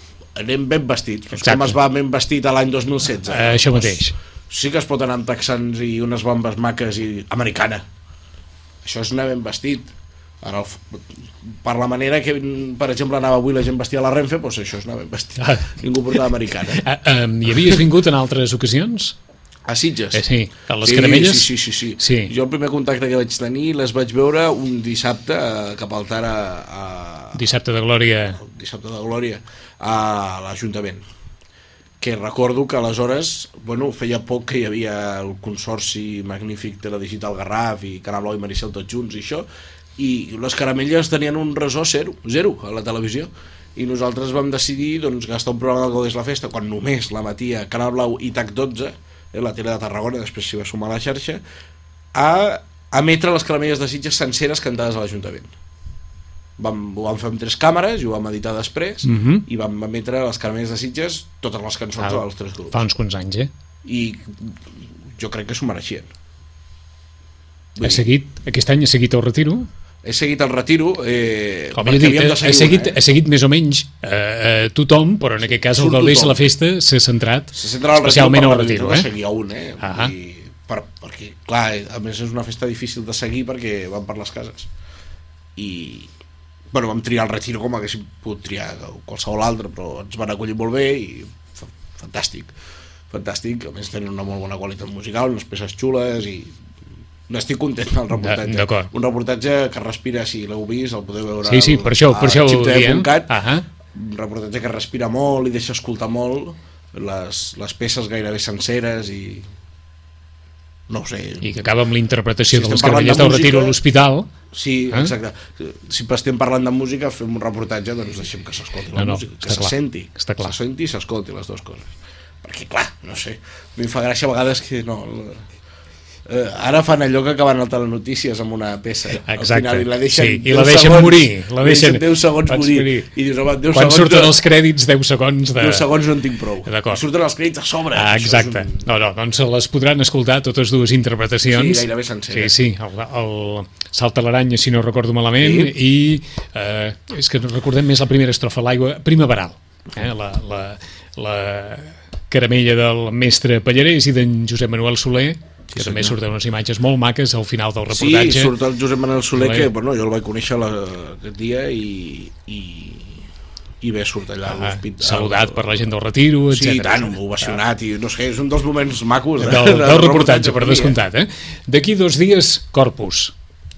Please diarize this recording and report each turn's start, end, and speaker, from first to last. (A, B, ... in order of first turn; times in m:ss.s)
0:00.4-0:07.8 A
0:01.4-0:01.8 B
0:03.3-0:04.1 B
0:08.8-0:09.9 A
0:10.4-0:16.8 A
0:15.4-0:16.2 B
0:16.8-0:19.2 B
0:19.6-0:20.2 A
0:20.1-0:22.3 B
0:20.8-0:27.5 A
0:27.3-0:28.4 B
0:28.4-0:31.0 A
0:32.0-0:51.4 A
0:52.1-0:55.5 A
0:56.6-1:02.8 A
0:59.0-0:59.4 B
1:02.0-1:03.5 B
1:03.8-1:06.1 A
1:07.8-1:08.1 A
1:07.9-1:09.7 B
1:10.0-1:13.0 A
1:11.7-1:19.1 B
1:15.4-1:16.4 A
1:17.5-1:24.7 A
1:19.8-1:20.1 B
1:25.6-1:26.1 A
1:26.7-1:32.5 A
1:33.1-1:36.6 A
1:37.3-1:43.3 A
1:38.2-1:38.9 B
1:41.5-1:43.7 B
1:43.9-1:49.5 A
1:50.9-1:51.7 A
1:51.4-1:54.3 B
1:52.4-1:53.8 A
1:54.5-2:01.9 A
1:58.9-2:00.5 B
2:02.4-2:05.4 A
2:06.2-2:14.4 A
2:09.2-2:13.1 B
2:13.7-2:15.8 B
2:15.6-2:18.9 A
2:16.6-2:17.0 B
2:18.0-2:21.9 B
2:21.4-2:22.6 A
2:22.5-2:38.5 B
2:25.4-2:25.7 A
2:35.7-2:36.2 A
2:37.9-2:43.2 A
2:43.8-2:45.8 A
2:44.5-2:47.5 B
2:46.5-2:51.0 A
2:49.5-2:53.3 B